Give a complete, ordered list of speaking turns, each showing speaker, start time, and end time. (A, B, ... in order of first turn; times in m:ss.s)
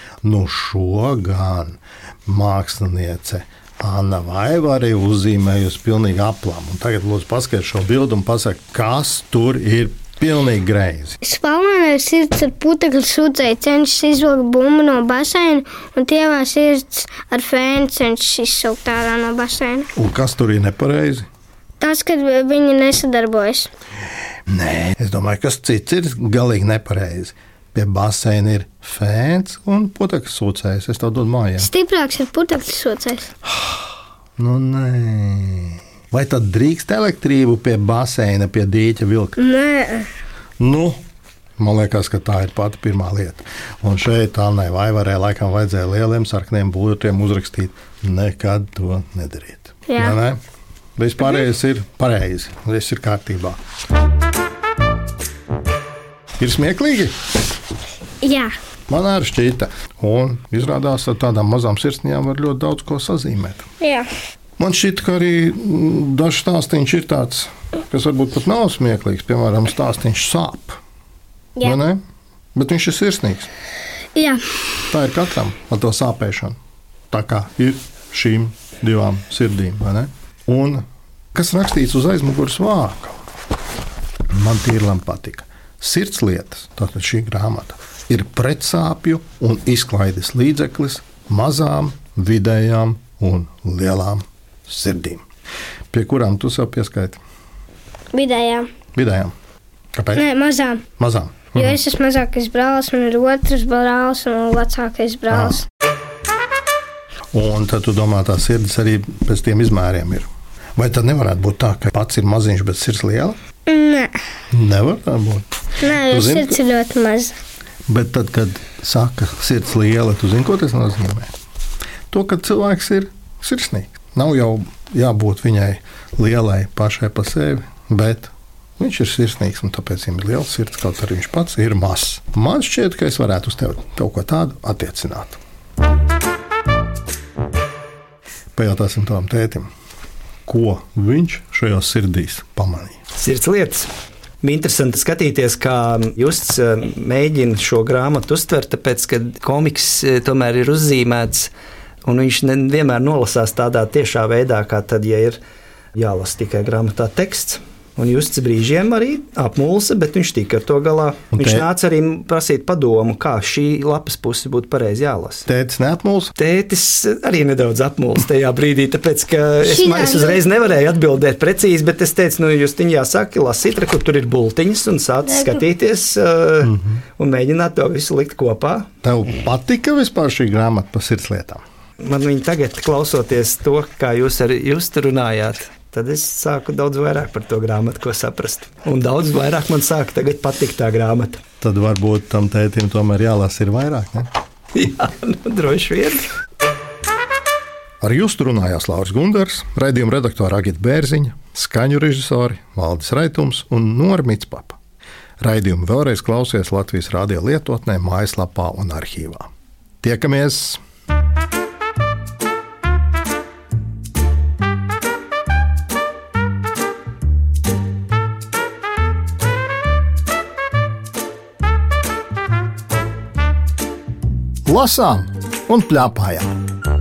0:00.2-0:11.2 A
0:11.2-0:19.9 B
0:19.9-0:21.2 A
0:21.8-0:23.7 B
0:24.5-0:31.7 A
0:31.6-0:33.3 B
0:34.4-0:39.4 A
0:39.4-0:40.1 B
0:40.6-0:41.0 A
0:41.6-0:50.4 A
0:49.9-0:50.2 B
0:51.0-0:53.6 A
0:56.4-0:57.1 A
0:58.2-0:58.5 B
0:58.9-1:03.7 A
1:03.8-1:04.1 B
1:04.6-1:10.8 A
1:11.6-1:12.0 A
1:12.5-1:13.5 A
1:14.1-1:14.4 B
1:14.9-1:16.6 A
1:17.1-1:20.8 A
1:21.4-1:23.2 A
1:24.3-1:35.2 A
1:35.9-1:37.2 A
1:38.1-1:38.7 B
1:38.9-1:39.3 A
1:39.9-1:40.2 A
1:40.1-1:40.8 B
1:41.0-1:41.8 A
1:41.5-1:45.6 B
1:45.3-1:45.6 A
1:47.3-1:53.4 A
1:53.7-1:54.1 B
1:54.5-1:56.6 A
1:55.8-1:57.4 B
1:57.9-2:01.3 A
2:02.1-2:15.4 A
2:18.6-2:19.7 A
2:20.4-2:23.0 A
2:23.1-2:23.9 C
2:24.4-2:31.5 C
2:32.0-2:35.4 C
2:35.9-2:45.4 C
2:41.3-2:41.6 A
2:45.4-2:46.3 A
2:46.4-2:58.9 C
2:49.6-2:50.4 B
2:55.2-2:55.6 B
2:59.0-3:01.6 A
3:02.0-3:11.4 C
3:11.6-3:14.3 A
3:14.7-3:16.3 C
3:18.0-3:24.8 A
3:25.4-3:29.5 A
3:30.0-3:30.8 A
3:44.6-3:46.5 A